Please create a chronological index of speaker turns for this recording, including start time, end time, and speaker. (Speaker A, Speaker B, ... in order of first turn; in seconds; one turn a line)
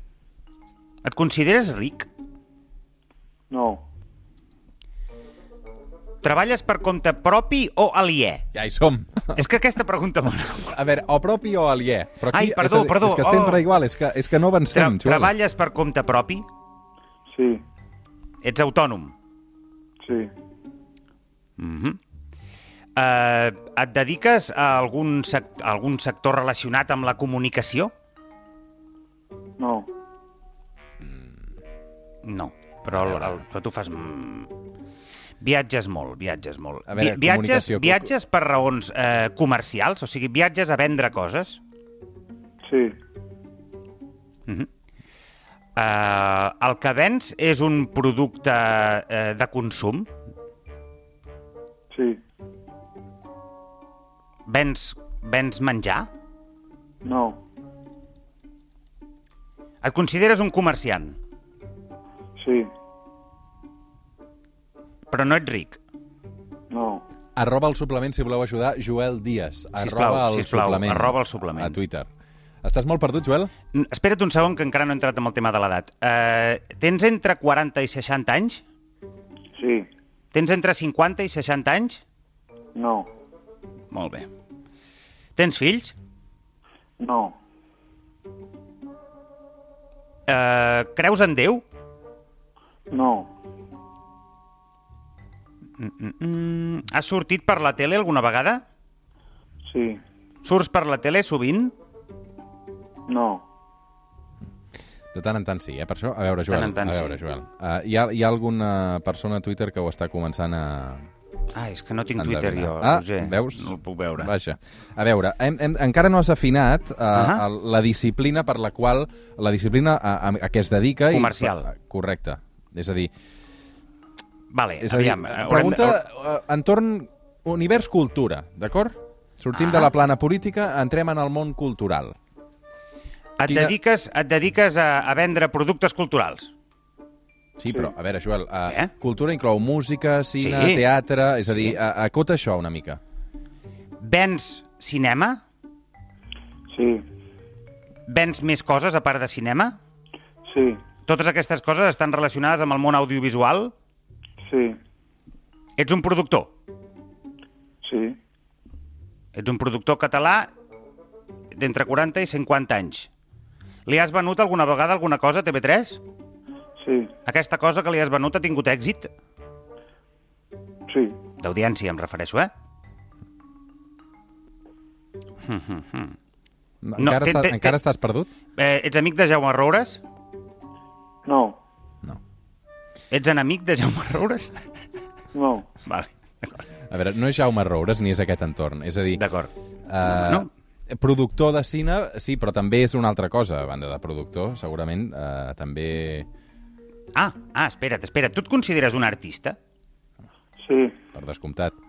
Speaker A: 1.0-2.1
Speaker B: 3.5-3.8
Speaker A: 6.2-8.4
Speaker C: 8.5-9.4
Speaker A: 9.3-10.8
Speaker C: 10.7-15.3
Speaker A: 12.3-13.6
Speaker A: 14.7-16.4
Speaker B: 17.3-17.6
Speaker A: 18.4-19.1
Speaker B: 20.0-20.3
Speaker A: 21.6-22.0
Speaker A: 22.9-27.9
Speaker B: 29.6-29.9
Speaker C: 31.0-31.3
Speaker A: 32.2-34.5
Speaker C: 32.9-33.4
Speaker A: 35.4-41.6
Speaker C: 36.9-38.1
Speaker B: 42.6-43.0
Speaker A: 45.8-50.1
Speaker B: 51.9-52.2
Speaker A: 54.5-56.1
Speaker B: 57.0-57.4
Speaker A: 59.8-61.2
Speaker B: 62.4-62.7
Speaker A: 65.1-65.8
Speaker B: 66.7-67.0
Speaker C: 67.3-72.1
Speaker A: 69.8-71.8
Speaker C: 72.6-73.5
Speaker A: 73.7-78.6
Speaker B: 79.5-79.9
Speaker A: 80.3-82.0
Speaker B: 82.7-83.1
Speaker A: 83.9-84.3
Speaker A: 85.3-85.9
Speaker B: 87.0-87.4
Speaker A: 90.3-91.6
Speaker B: 92.9-93.3
Speaker A: 95.8-98.6
Speaker B: 99.7-100.0
Speaker A: 100.4-101.7
Speaker B: 103.1-103.4
Speaker C: 105.1-111.1
Speaker A: 106.5-107.2
Speaker A: 111.5-114.3
Speaker C: 112.2-123.1
Speaker A: 117.1-117.4
Speaker A: 121.1-121.7
Speaker A: 124.5-126.0
Speaker C: 124.8-132.2
Speaker A: 129.5-129.9
Speaker A: 133.4-136.5
Speaker C: 133.4-133.7
Speaker C: 137.6-143.0
Speaker A: 138.7-138.9
Speaker A: 140.4-140.8
Speaker A: 141.5-141.8
Speaker A: 144.0-145.4
Speaker B: 146.7-147.0
Speaker A: 148.1-149.8
Speaker B: 150.5-150.8
Speaker A: 151.1-153.7
Speaker B: 154.5-154.8
Speaker A: 155.8-156.5
Speaker B: 157.8-158.2
Speaker A: 159.3-160.5
Speaker A: 161.5-163.1
Speaker A: 163.9-166.0
Speaker B: 166.8-167.1
Speaker A: 167.2-169.1
Speaker B: 170.9-171.2
Speaker A: 171.4-172.5
Speaker A: 175.4-176.2
Speaker C: 176.8-178.3
Speaker A: 177.0-177.8
Speaker A: 178.6-180.0
Speaker B: 181.2-181.6
Speaker A: 183.1-184.7
Speaker B: 185.3-185.7
Speaker A: 185.8-186.6
Speaker C: 186.9-189.2
Speaker A: 189.1-189.5
Speaker C: 189.9-196.3
Speaker A: 190.0-190.5
Speaker A: 197.1-199.6
Speaker B: 200.6-200.9
Speaker C: 201.1-201.7